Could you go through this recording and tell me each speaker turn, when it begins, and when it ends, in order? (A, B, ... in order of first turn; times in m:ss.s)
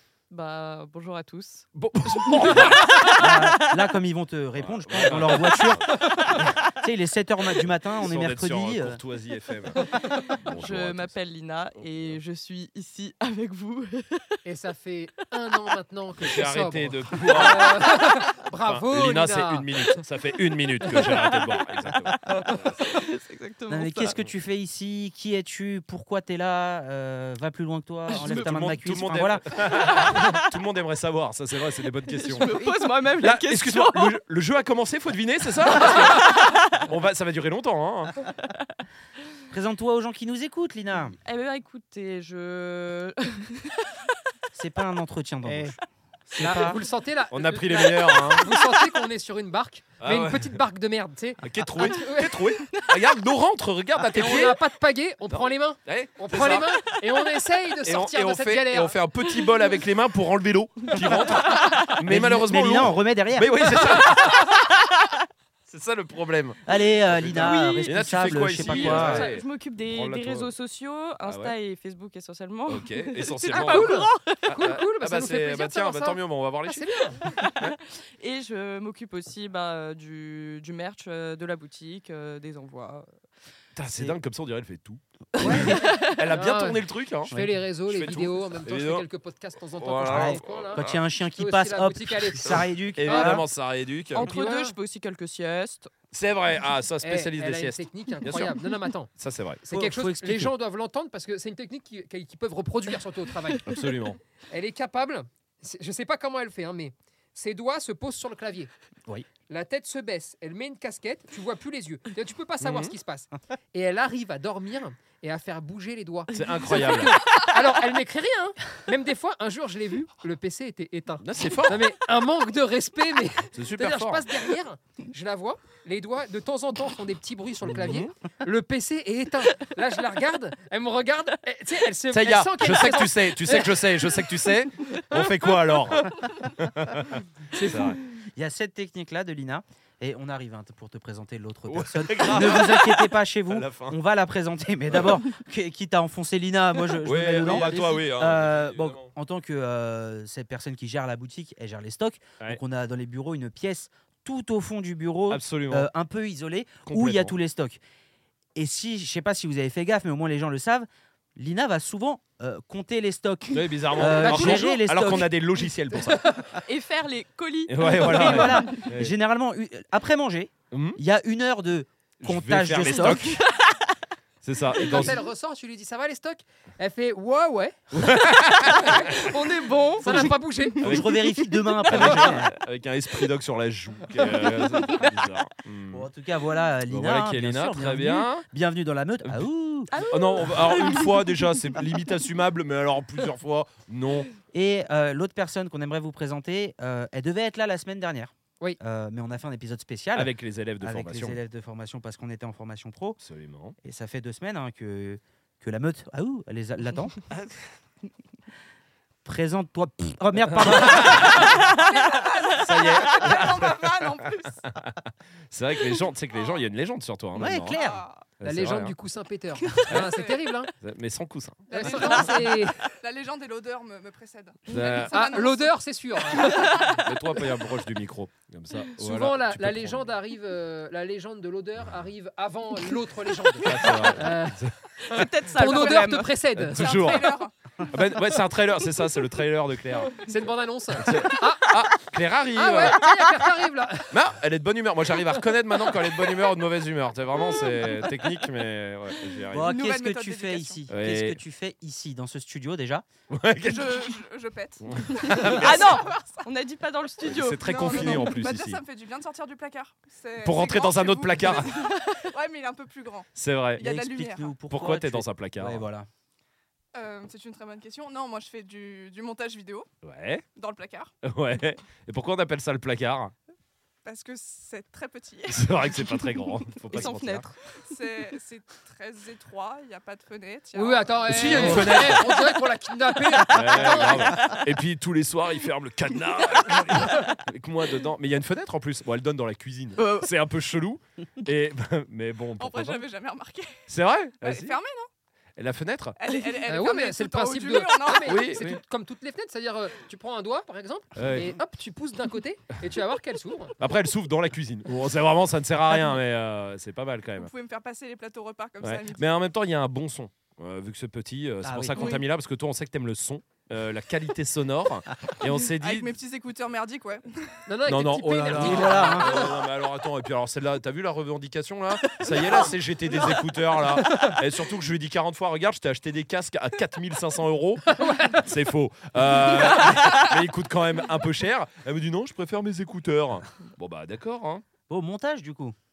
0:00.3-0:03.7 A
0:01.8-0:03.0 B
0:03.2-0:09.0 C
0:04.6-0:06.1 B
0:08.0-0:11.2 B
0:10.0-0:14.4 A
0:11.8-0:12.2 B
0:14.4-0:20.0 D
0:16.2-0:18.0 B
0:18.6-0:23.0 B
0:20.8-0:24.1 A
0:23.7-0:29.5 C
0:28.1-0:32.5 B
0:28.1-0:28.5 A
0:30.0-0:30.4 A
0:32.2-0:34.2 A
0:32.4-0:32.7 C
0:33.2-0:38.2 B
0:35.6-0:36.8 A
0:38.3-0:38.7 A
0:39.5-0:41.2 C
0:41.2-0:43.9 A
0:44.5-0:46.8 C
0:45.5-0:45.8 D
0:46.4-0:52.4 D
0:47.3-0:48.4 B
0:47.9-0:48.5 A
0:50.0-0:50.6 B
0:51.4-0:54.6 B
0:52.7-0:53.0 A
0:54.1-0:59.0 D
0:55.3-0:56.7 B
0:57.8-1:04.6 B
1:00.9-1:02.0 A
1:02.0-1:03.6 C
1:05.7-1:10.5 B
1:06.7-1:09.3 C
1:07.4-1:14.7 A
1:09.0-1:09.3 D
1:11.2-1:11.6 B
1:12.7-1:17.8 B
1:13.5-1:17.3 D
1:17.2-1:23.1 A
1:23.8-1:27.4 B
1:23.9-1:24.2 C
1:25.4-1:26.2 A
1:25.4-1:33.4 D
1:27.3-1:27.5 C
1:27.9-1:29.1 B
1:29.7-1:31.0 B
1:30.0-1:33.4 C
1:32.5-1:34.2 B
1:34.1-1:34.8 D
1:34.1-1:35.9 A
1:36.1-1:38.6 B
1:37.0-1:39.1 D
1:39.2-1:39.6 B
1:39.6-1:43.7 D
1:39.7-1:40.5 C
1:43.7-1:44.2 B
1:44.5-1:48.7 D
1:49.5-2:13.8 D
1:52.6-1:52.9 B
1:56.3-1:57.3 B
2:01.2-2:01.8 B
2:03.5-2:04.3 B
2:07.6-2:08.1 B
2:12.1-2:18.0 B
2:17.5-2:18.0 D
2:18.4-2:37.8 C
2:21.7-2:24.0 B
2:27.0-2:29.1 B
2:35.3-2:35.9 B
2:36.9-2:37.3 B
2:38.6-2:45.3 C
2:43.5-2:46.3 B
2:44.1-2:44.8 D
2:46.0-2:46.5 D
2:46.7-2:48.9 A
2:47.7-2:49.1 B
2:48.0-2:53.4 C
2:50.7-2:51.0 B
2:52.2-2:53.4 B
2:54.4-2:55.2 B
2:54.8-2:57.8 D
2:57.9-2:59.2 B
2:58.7-3:02.1 A
2:58.7-3:00.8 D
3:00.8-3:02.5 C
3:00.8-3:01.2 B
3:01.8-3:06.1 B
3:05.9-3:09.9 C
3:06.9-3:08.4 B
3:09.9-3:11.4 A
3:10.0-3:14.3 B
3:14.5-3:23.2 C
3:20.1-3:21.4 B
3:23.2-3:23.8 B
3:23.8-3:27.2 C
3:29.2-3:31.4 C
3:30.4-3:31.6 B
3:31.4-3:31.8 A
3:31.6-3:34.5 E
3:32.6-3:33.9 B
3:34.6-3:35.0 B
3:35.5-3:37.8 B
3:36.3-3:36.6 E
3:37.4-3:38.0 C
3:37.6-3:38.2 E
3:38.4-3:39.0 B
3:38.4-3:40.7 D
3:40.0-3:40.4 E
3:40.8-3:42.2 B
3:41.7-3:42.8 D
3:41.7-3:45.7 E
3:44.7-3:45.2 B
3:45.1-3:47.0 D
3:46.6-3:46.9 A
3:46.9-3:50.1 B
3:49.0-3:54.6 D
3:53.6-3:55.2 B
3:53.8-3:54.1 A
3:55.0-3:56.4 A
3:55.4-3:57.2 D
3:55.6-3:57.5 E
3:56.6-4:00.3 B
4:00.2-4:01.7 D
4:01.0-4:03.0 B
4:02.5-4:04.2 D
4:04.1-4:09.7 B
4:09.5-4:13.1 C
4:09.6-4:10.9 E
4:10.9-4:11.4 B
4:13.3-4:14.1 B
4:13.6-4:16.5 E
4:14.8-4:16.0 B
4:15.4-4:18.4 A
4:17.2-4:18.8 B
4:17.6-4:24.6 E
4:20.4-4:21.8 B
4:21.7-4:22.3 A
4:23.4-4:23.8 B
4:23.8-4:26.1 C
4:24.7-4:25.8 B
4:26.9-4:29.9 E
4:30.0-4:30.4 B
4:30.6-4:31.1 E
4:31.2-4:33.3 B
4:34.0-4:36.0 E
4:35.5-4:37.5 B
4:36.9-4:37.6 A
4:37.8-4:42.1 E
4:40.7-4:44.4 D
4:41.3-4:42.3 B
4:43.5-4:53.0 B
4:43.9-4:44.5 A
4:50.0-4:50.3 A
4:52.6-4:55.1 E
4:53.9-4:54.8 B
4:55.6-4:56.2 B
4:56.2-4:58.5 E
4:56.7-5:03.8 D
4:58.2-4:58.8 B
5:01.2-5:01.6 B
5:03.8-5:07.5 B
5:07.4-5:09.3 E
5:08.8-5:16.1 B
5:11.6-5:12.0 C
5:12.0-5:12.3 E
5:15.8-5:17.6 E
5:17.7-5:19.5 D
5:17.9-5:34.6 B
5:18.4-5:19.4 C
5:28.0-5:28.4 D
5:34.9-5:35.8 C